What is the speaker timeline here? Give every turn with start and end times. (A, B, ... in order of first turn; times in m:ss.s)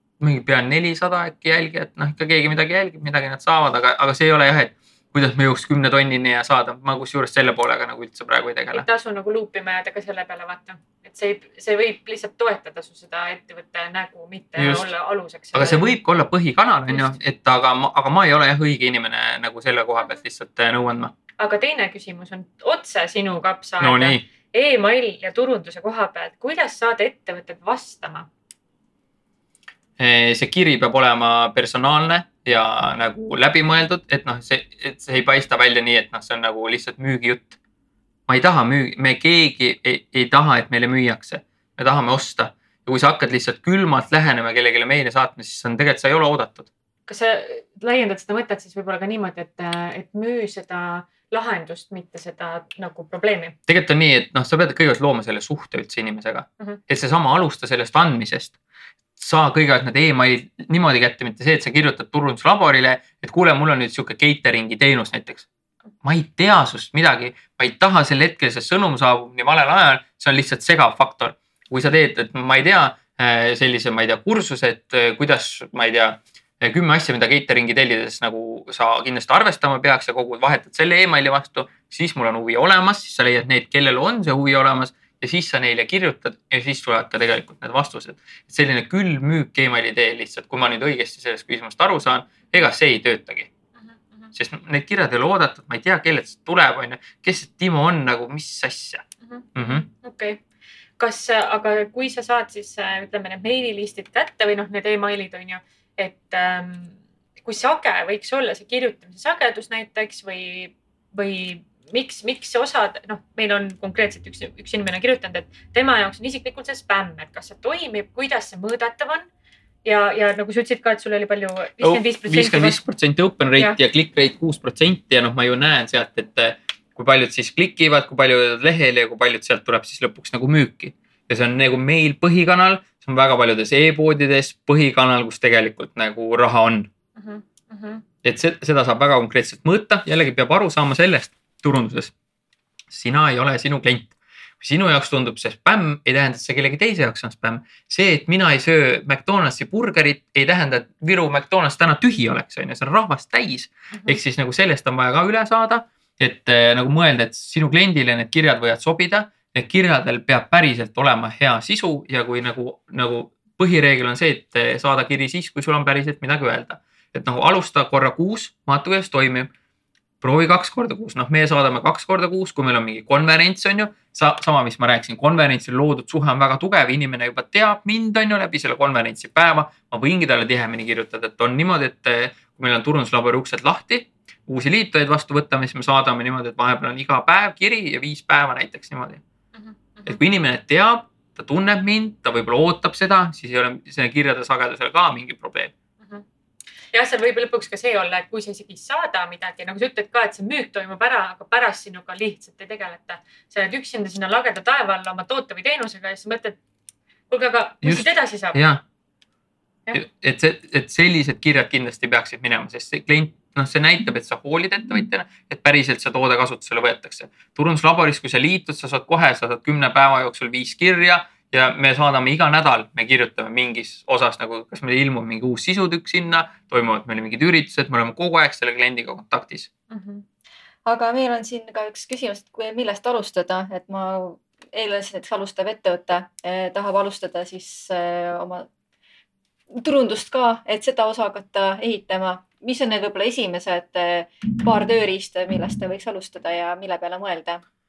0:00.2-0:08.9 A
0:08.7-0:15.9 B
0:14.6-0:14.9 A
0:15.5-0:21.1 A
0:21.4-0:28.3 B
0:23.8-0:24.2 A
0:30.0-0:37.6 A
0:38.3-0:46.7 A
0:47.1-0:53.6 B
0:53.7-0:58.6 A
0:59.2-1:05.5 A
1:06.0-1:33.5 A
1:34.3-1:39.8 A
1:39.2-1:40.4 B
1:41.0-1:59.3 B
1:59.8-2:02.8 B
2:01.8-2:16.9 A
2:17.2-2:18.0 B
2:18.2-2:22.1 A
2:22.9-2:49.5 A
2:50.2-3:09.2 A
3:09.6-3:10.2 B
3:10.1-3:15.7 A
3:16.9-3:26.6 B
3:27.3-3:28.6 B
3:27.8-3:28.8 A
3:29.9-3:49.7 A
3:49.9-3:50.2 B
3:50.8-3:58.7 C
3:59.8-4:07.6 C